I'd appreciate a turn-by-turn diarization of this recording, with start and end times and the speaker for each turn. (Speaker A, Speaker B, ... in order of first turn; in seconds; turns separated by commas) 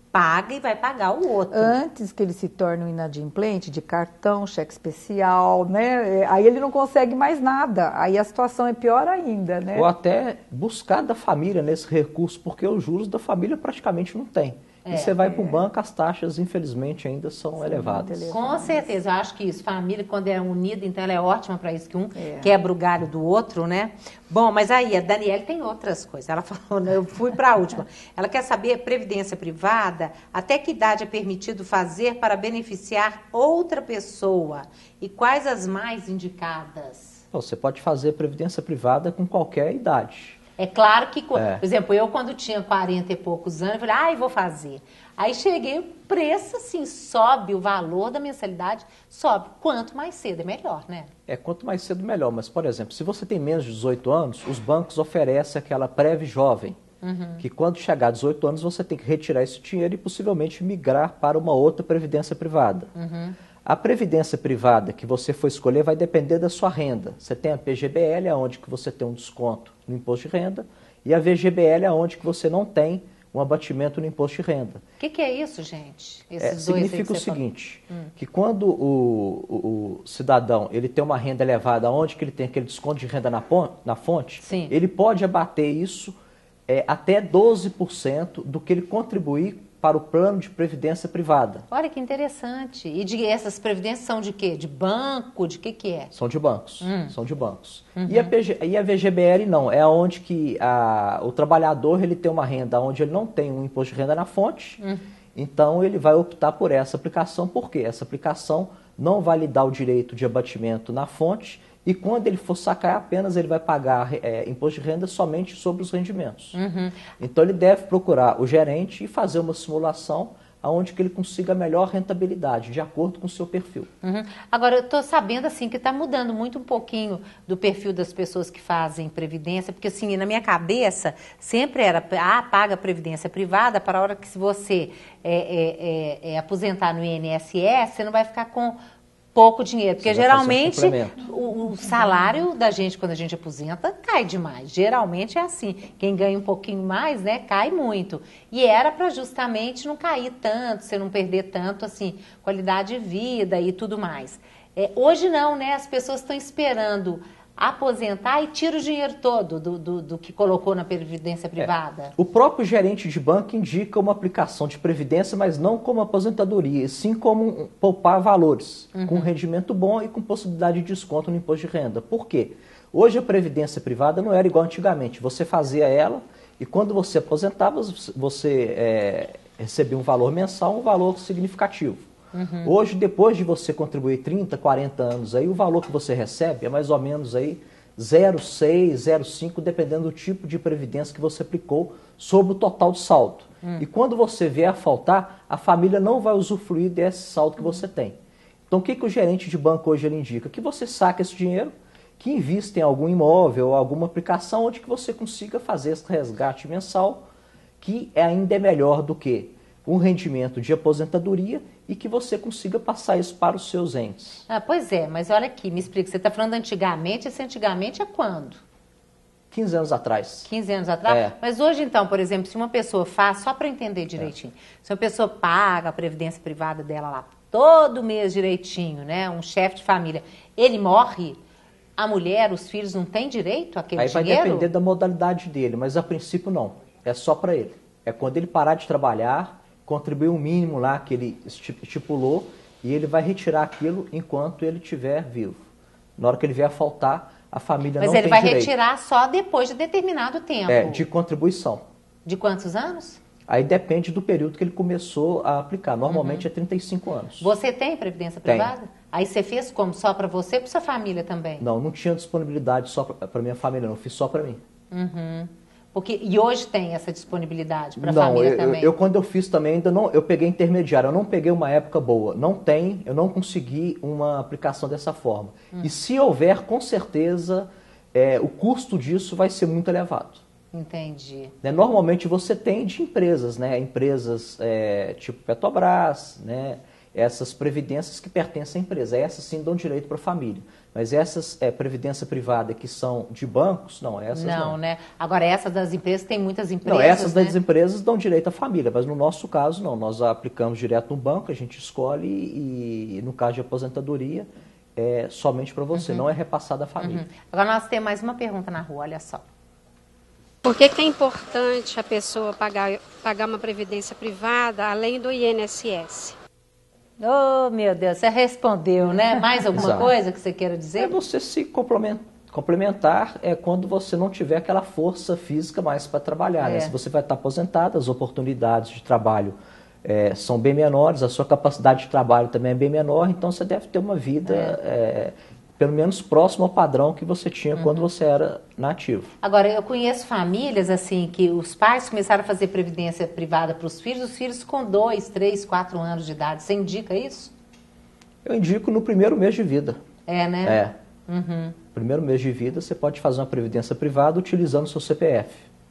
Speaker A: 0.1-1.8, Speaker B: 1.5-9.9, Speaker C: 9.7-18.4, Speaker A: 14.8-15.1, Speaker B: 15.2-15.7, Speaker B: 17.6-18.9, Speaker A: 18.3-37.2, Speaker B: 22.1-22.5, Speaker C: 37.3-40.4, Speaker A: 40.6-51.1, Speaker C: 41.4-41.6, Speaker C: 51.3-56.8, Speaker A: 57.0-57.4, Speaker C: 57.4-62.9, Speaker A: 63.0-63.4, Speaker C: 63.6-74.8, Speaker A: 75.0-78.1, Speaker C: 76.4-86.2, Speaker A: 84.4-84.7, Speaker C: 86.7-91.7, Speaker A: 91.7-96.1, Speaker C: 96.1-104.8, Speaker A: 96.8-97.1, Speaker A: 98.0-98.3, Speaker C: 105.3-116.6, Speaker A: 116.5-117.0, Speaker C: 117.2-123.9, Speaker A: 124.0-138.8, Speaker A: 139.3-162.1, Speaker C: 140.0-141.2, Speaker C: 161.6-182.1, Speaker A: 168.9-169.3, Speaker A: 182.3-182.8, Speaker C: 182.6-198.2, Speaker C: 198.7-207.3, Speaker C: 207.8-214.4, Speaker A: 214.5-218.6, Speaker C: 219.5-220.5, Speaker A: 220.5-231.4, Speaker C: 221.1-221.3, Speaker A: 232.0-234.7, Speaker C: 234.0-245.6, Speaker C: 246.2-248.7, Speaker A: 248.0-251.0, Speaker C: 250.7-251.9, Speaker A: 252.3-253.2, Speaker C: 253.5-257.5, Speaker A: 256.1-256.5, Speaker A: 257.4-261.6, Speaker C: 258.5-258.7, Speaker C: 261.6-264.6, Speaker A: 264.9-268.9, Speaker C: 268.0-280.4, Speaker A: 280.7-281.5, Speaker C: 281.6-294.8, Speaker A: 294.3-297.6, Speaker C: 296.8-307.2, Speaker A: 305.9-306.2, Speaker A: 307.0-309.4, Speaker D: 310.6-316.4, Speaker A: 317.2-321.2, Speaker C: 319.7-320.1, Speaker C: 321.0-339.3, Speaker A: 326.6-326.9, Speaker A: 334.4-334.8, Speaker A: 337.8-338.1, Speaker A: 339.4-347.5, Speaker C: 348.4-350.0, Speaker A: 350.3-351.8, Speaker C: 350.6-350.9, Speaker C: 351.9-355.6